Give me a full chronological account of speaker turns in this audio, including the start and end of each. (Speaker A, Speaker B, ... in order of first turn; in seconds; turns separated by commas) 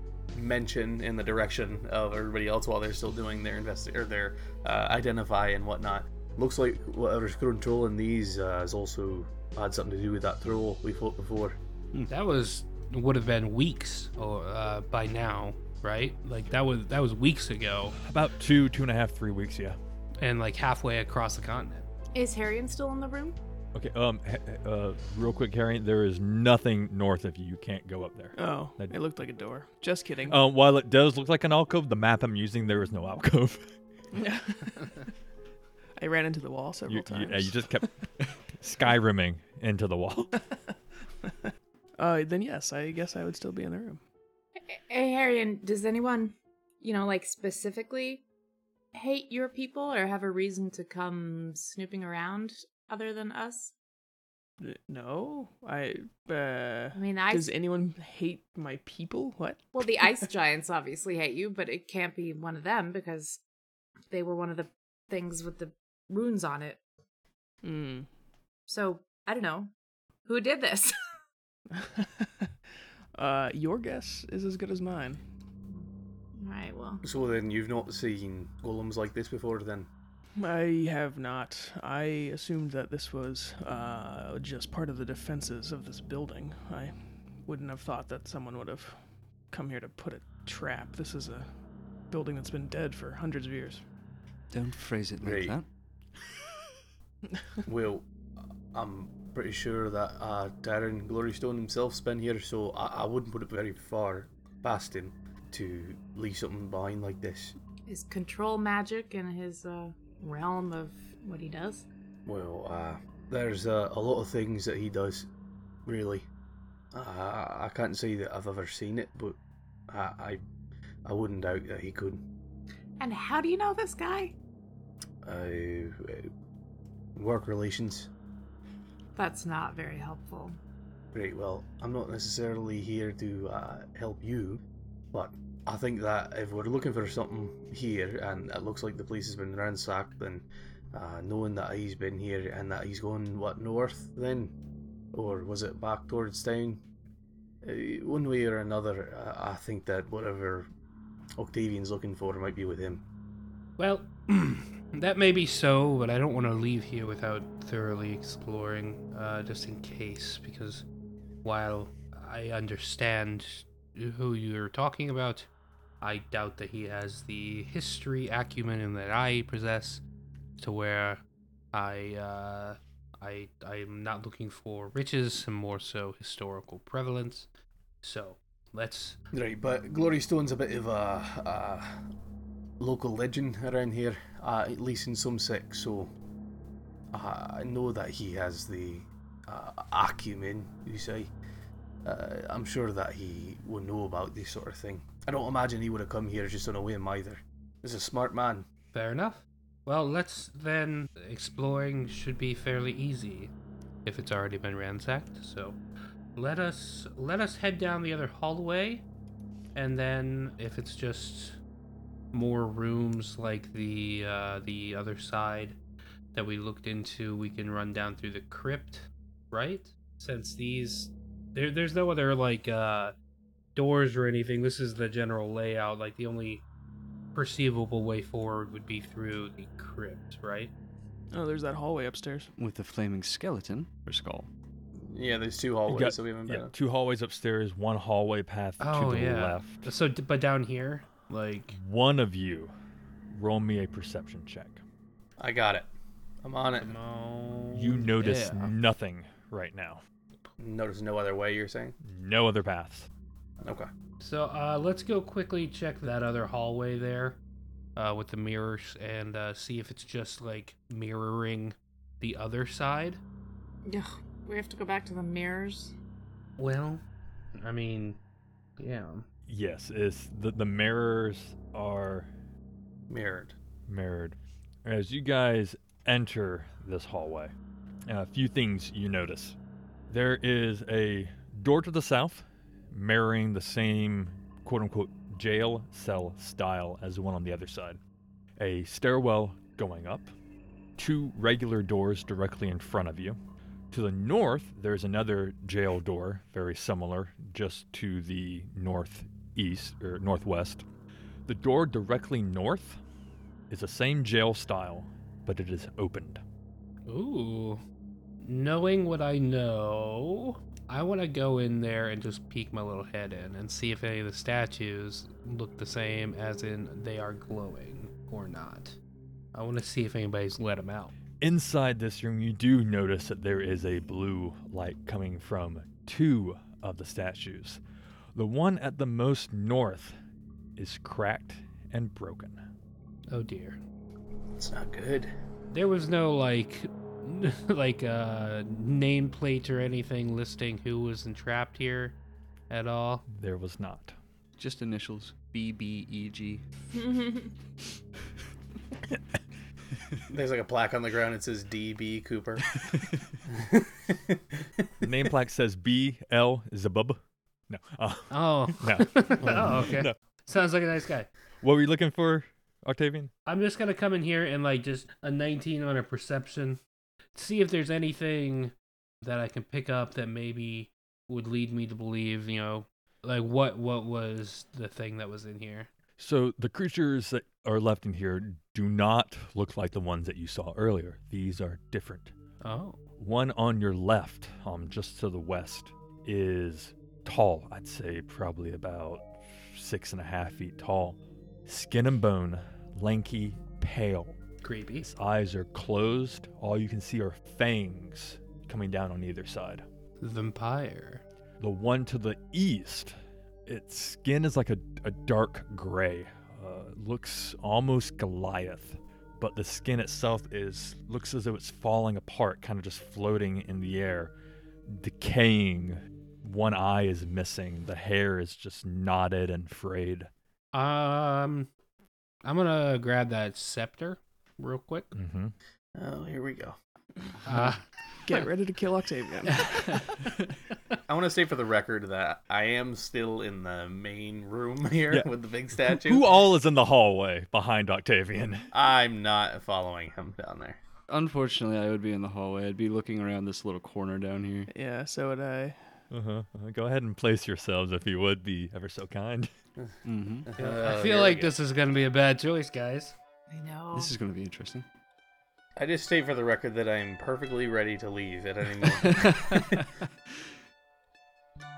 Speaker A: 0.3-11.6, Speaker B: 12.1-17.9, Speaker C: 18.0-19.8, Speaker B: 20.2-21.9, Speaker D: 22.1-23.4, Speaker C: 23.7-28.9, Speaker E: 28.4-30.4, Speaker C: 30.3-33.7, Speaker E: 34.1-35.0, Speaker E: 36.0-37.6, Speaker C: 36.9-40.4, Speaker E: 42.0-44.0, Speaker D: 44.7-48.2, Speaker D: 48.9-53.7, Speaker E: 54.6-60.1, Speaker D: 56.9-57.5, Speaker D: 59.7-63.4, Speaker D: 64.1-66.8, Speaker E: 67.6-68.1, Speaker D: 68.7-69.7, Speaker D: 70.2-71.0, Speaker E: 71.7-72.5, Speaker E: 73.1-75.2, Speaker D: 75.7-77.0, Speaker A: 77.0-79.9, Speaker E: 80.4-89.0, Speaker E: 89.5-91.5, Speaker E: 92.1-93.8, Speaker F: 94.5-95.7, Speaker A: 95.2-95.6, Speaker A: 97.7-98.0, Speaker A: 98.7-107.5, Speaker D: 107.9-111.8, Speaker A: 112.2-115.3, Speaker A: 115.8-116.2, Speaker A: 116.9-119.4, Speaker A: 119.9-120.4, Speaker A: 121.0-122.2, Speaker D: 123.0-124.3, Speaker A: 125.2-126.3, Speaker A: 127.2-128.1, Speaker D: 129.2-130.6, Speaker A: 131.1-134.6, Speaker A: 135.1-144.5, Speaker A: 145.1-146.8, Speaker A: 147.6-150.7, Speaker A: 151.4-153.0, Speaker B: 153.8-160.8, Speaker B: 161.4-165.5, Speaker B: 166.0-170.0, Speaker B: 170.6-177.5, Speaker B: 178.0-179.2, Speaker A: 179.3-181.9, Speaker A: 182.8-186.1, Speaker A: 187.1-191.3, Speaker A: 192.0-198.7, Speaker B: 198.9-203.5, Speaker B: 204.0-205.8, Speaker B: 206.3-209.0, Speaker B: 209.7-211.6, Speaker B: 212.3-215.8, Speaker B: 216.3-223.1, Speaker B: 223.7-226.6, Speaker B: 227.3-230.7, Speaker E: 231.3-232.5, Speaker F: 232.6-234.5, Speaker A: 235.1-236.7, Speaker C: 235.9-239.9, Speaker B: 238.8-241.8, Speaker C: 241.7-242.7, Speaker C: 243.3-244.8, Speaker A: 245.4-245.9, Speaker A: 246.4-246.9, Speaker B: 246.8-248.7, Speaker C: 247.7-250.0, Speaker A: 250.6-251.9, Speaker C: 252.0-253.1, Speaker A: 253.6-253.9, Speaker B: 254.2-257.4, Speaker B: 257.9-263.2, Speaker D: 263.9-265.9, Speaker B: 266.6-267.0, Speaker B: 267.5-268.2, Speaker B: 268.8-269.2, Speaker C: 269.5-272.3, Speaker A: 273.1-273.5, Speaker C: 273.9-277.5, Speaker C: 278.1-279.6, Speaker C: 280.1-288.0, Speaker C: 288.6-290.3, Speaker C: 291.0-293.4, Speaker C: 293.9-300.8, Speaker C: 301.4-303.0, Speaker C: 303.7-306.4, Speaker B: 307.1-307.8, Speaker B: 308.4-319.0, Speaker B: 319.5-321.1, Speaker C: 321.4-327.8, Speaker C: 328.3-330.1, Speaker C: 330.8-332.6, Speaker B: 333.3-333.8, Speaker A: 334.6-335.3, Speaker B: 335.7-342.2, Speaker B: 342.7-343.2, Speaker C: 343.3-344.1, Speaker F: 344.6-346.6, Speaker D: 346.9-347.5, Speaker A: 350.3-352.7, Speaker A: 353.5-354.9, Speaker C: 355.0-360.1, Speaker B: 358.3-361.3, Speaker C: 361.6-363.3, Speaker B: 363.4-366.8, Speaker B: 367.3-375.9, Speaker C: 376.2-382.3, Speaker B: 382.6-383.0, Speaker C: 383.2-394.4, Speaker B: 394.6-395.1, Speaker C: 395.0-399.8, Speaker B: 400.2-401.2, Speaker C: 401.6-403.1, Speaker C: 403.6-414.3, Speaker C: 414.9-420.3, Speaker B: 420.7-421.7, Speaker B: 422.4-425.1, Speaker C: 425.1-425.5, Speaker A: 425.9-426.8, Speaker B: 427.4-427.8, Speaker E: 428.2-430.0, Speaker A: 431.1-436.2, Speaker C: 435.8-438.7, Speaker A: 438.7-440.8, Speaker F: 441.1-444.7, Speaker E: 444.7-445.8, Speaker C: 446.1-449.5, Speaker F: 450.0-450.5, Speaker A: 450.4-451.5, Speaker B: 450.6-453.1, Speaker D: 453.5-454.1, Speaker F: 453.9-454.8, Speaker A: 455.8-459.9